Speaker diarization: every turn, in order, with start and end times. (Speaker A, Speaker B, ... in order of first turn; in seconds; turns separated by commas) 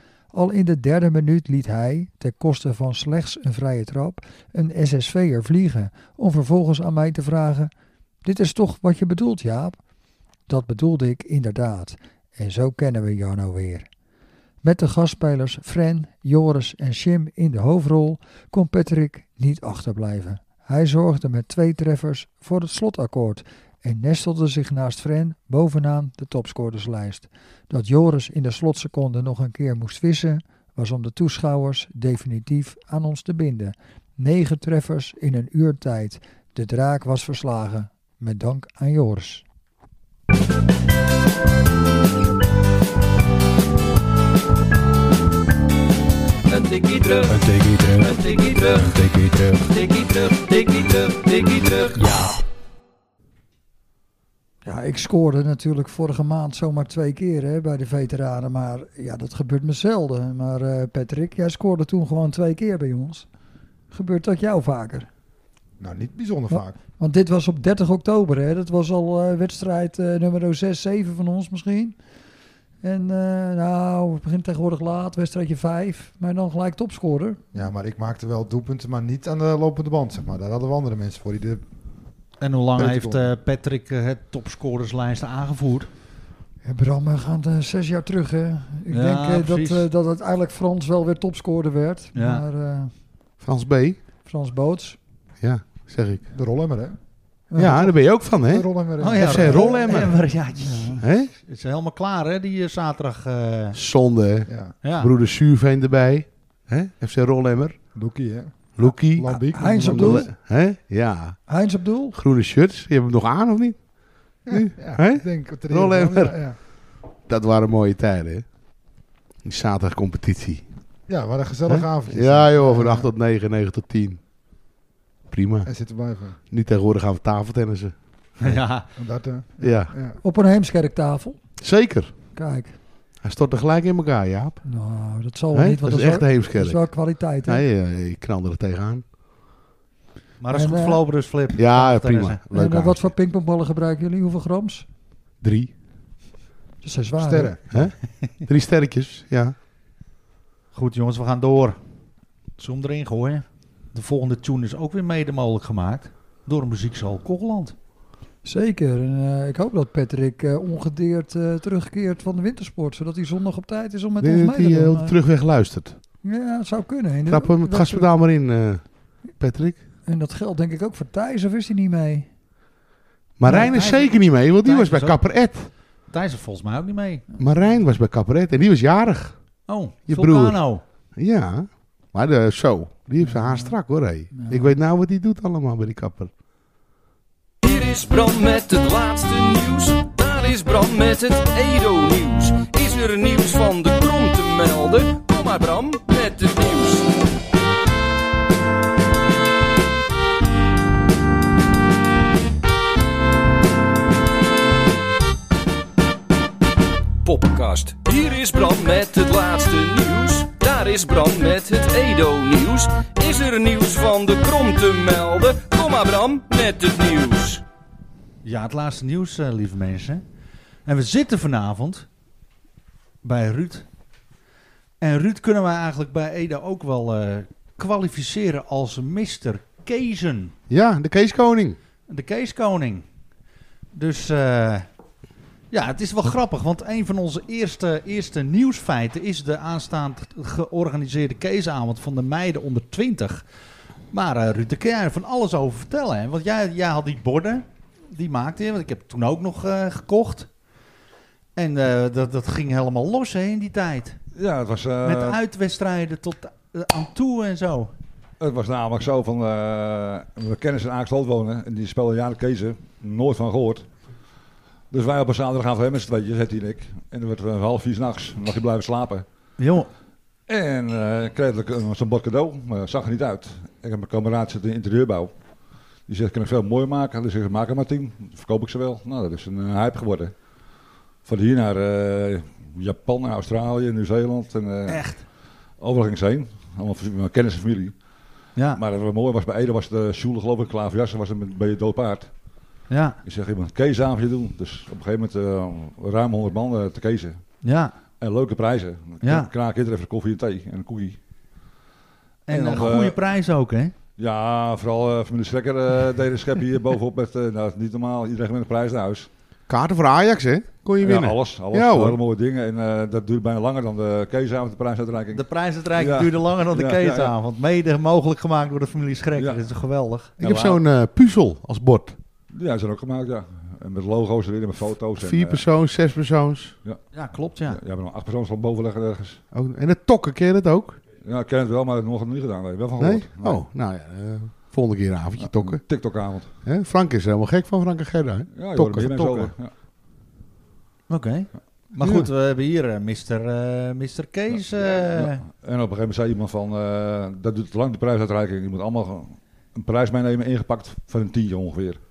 Speaker A: 0.3-7.7, Speaker A: 8.2-9.8, Speaker A: 10.5-13.9, Speaker A: 14.6-39.4, Speaker B: 46.5-47.4, Speaker C: 47.3-48.2, Speaker B: 48.0-48.9, Speaker C: 48.8-49.6, Speaker B: 49.7-52.0, Speaker C: 52.0-52.4, Speaker A: 54.6-63.2, Speaker A: 63.9-65.1, Speaker D: 65.8-66.8, Speaker A: 66.5-72.0, Speaker A: 72.8-77.4, Speaker D: 77.5-81.6, Speaker E: 82.4-85.9, Speaker D: 82.8-83.3, Speaker A: 86.6-92.9, Speaker E: 88.9-89.8, Speaker E: 92.1-92.4, Speaker F: 93.4-94.0, Speaker A: 94.2-95.0, Speaker F: 95.4-96.3, Speaker D: 96.3-97.0, Speaker A: 97.5-97.9, Speaker F: 97.5-100.3, Speaker D: 98.5-99.8, Speaker E: 99.0-103.8, Speaker A: 99.5-99.9, Speaker A: 100.6-101.0, Speaker F: 101.0-101.3, Speaker F: 103.7-107.8, Speaker D: 104.5-104.7, Speaker E: 104.8-105.1, Speaker D: 107.9-110.2, Speaker F: 108.8-111.4, Speaker A: 109.3-110.3, Speaker A: 111.5-112.2, Speaker F: 112.1-113.8, Speaker F: 114.5-116.4, Speaker D: 114.5-116.5, Speaker F: 117.2-118.4, Speaker F: 119.4-120.6, Speaker D: 121.1-123.1, Speaker F: 121.7-124.2, Speaker F: 125.3-125.7, Speaker D: 125.7-126.4, Speaker F: 126.5-128.6, Speaker E: 128.4-128.9, Speaker D: 128.9-130.2, Speaker F: 129.6-129.9, Speaker A: 130.2-131.4, Speaker F: 131.6-132.1, Speaker A: 132.3-132.8, Speaker F: 133.2-134.6, Speaker A: 134.6-137.6, Speaker F: 135.5-139.0, Speaker E: 140.4-142.4, Speaker A: 140.5-141.0, Speaker F: 141.6-143.1, Speaker A: 142.5-144.8, Speaker F: 145.4-145.7, Speaker A: 146.8-147.6, Speaker D: 147.2-147.6, Speaker F: 147.7-149.5, Speaker E: 150.7-151.8, Speaker E: 152.6-157.7, Speaker A: 158.4-165.2, Speaker F: 164.2-166.0, Speaker A: 166.2-168.1, Speaker F: 167.3-169.8, Speaker A: 170.1-172.3, Speaker F: 173.4-175.7, Speaker E: 173.4-175.3, Speaker E: 176.1-177.3, Speaker F: 177.4-179.4, Speaker E: 179.7-180.8, Speaker F: 180.1-180.6, Speaker F: 181.2-186.3, Speaker A: 183.2-183.7, Speaker A: 184.3-184.7, Speaker B: 187.6-197.1, Speaker B: 207.2-217.6, Speaker E: 218.4-220.2, Speaker E: 220.8-222.1, Speaker E: 223.2-223.8, Speaker E: 225.0-230.5, Speaker F: 230.7-231.8, Speaker E: 232.1-233.0, Speaker E: 233.9-234.8, Speaker E: 235.7-243.4, Speaker E: 244.1-250.5, Speaker E: 251.6-254.2, Speaker G: 254.3-255.4, Speaker E: 255.0-257.9, Speaker G: 258.4-263.9, Speaker G: 264.9-269.2, Speaker E: 269.6-269.9, Speaker G: 270.5-275.3, Speaker G: 276.1-280.3, Speaker G: 281.2-285.0, Speaker E: 284.9-285.2, Speaker G: 285.8-287.9, Speaker E: 288.6-288.8, Speaker G: 288.7-292.3, Speaker E: 292.9-293.2, Speaker G: 293.2-297.4, Speaker E: 297.6-297.9, Speaker G: 298.2-301.2, Speaker E: 299.2-299.5, Speaker E: 302.5-303.9, Speaker G: 302.5-303.2, Speaker G: 304.2-309.3, Speaker F: 309.7-312.2, Speaker G: 311.0-315.4, Speaker E: 315.3-320.8, Speaker G: 315.9-317.3, Speaker F: 320.4-322.1, Speaker G: 322.5-325.6, Speaker F: 325.2-326.7, Speaker E: 327.1-327.8, Speaker G: 327.7-329.4, Speaker F: 329.5-331.0, Speaker G: 331.2-333.6, Speaker F: 333.0-335.8, Speaker G: 335.4-336.5, Speaker F: 336.6-339.5, Speaker G: 338.5-339.7, Speaker E: 341.1-345.4, Speaker F: 342.0-342.3, Speaker G: 345.0-352.0